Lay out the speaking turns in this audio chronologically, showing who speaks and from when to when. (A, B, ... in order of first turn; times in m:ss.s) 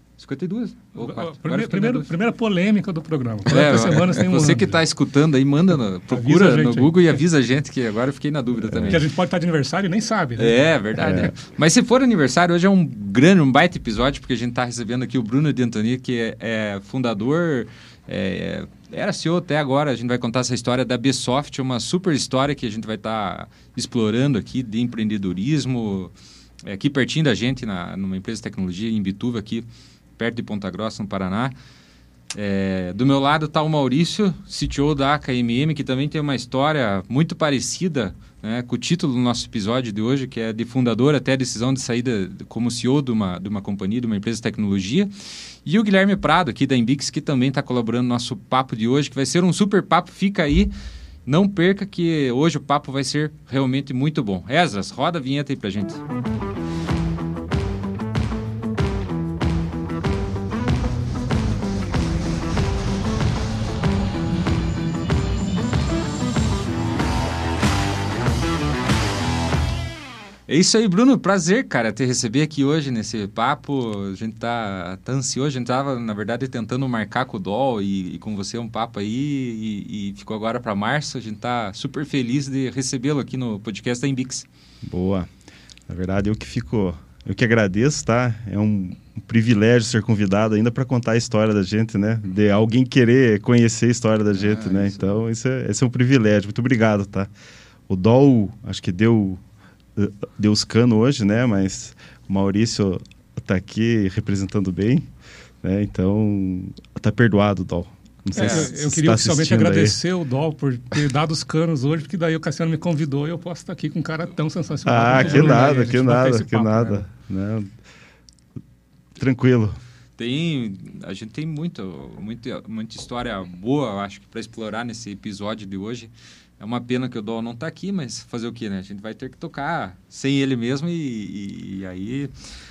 0:00.2-0:02.1 A
0:01.0-0:04.7 B
0:03.5-0:09.0 A
0:06.1-0:07.0 B
0:08.6-0:09.0 C
0:08.9-0:11.1 B
0:10.4-0:26.1 A
0:11.0-0:11.3 C
0:26.6-0:31.5 A
0:32.3-0:45.1 A
0:45.6-0:50.7 A
0:51.2-0:56.0 A
1:10.5-1:24.4 A
1:24.8-1:25.3 C
1:25.9-1:37.3 C
1:34.4-1:35.2 A
1:37.9-1:39.4 C
1:40.0-1:45.1 C
1:45.6-1:50.0 C
1:48.3-1:57.0 B
1:48.3-1:48.7 A
1:54.8-1:57.7 C
1:55.1-1:55.6 A
1:59.2-1:59.8 C
2:00.2-2:12.3 A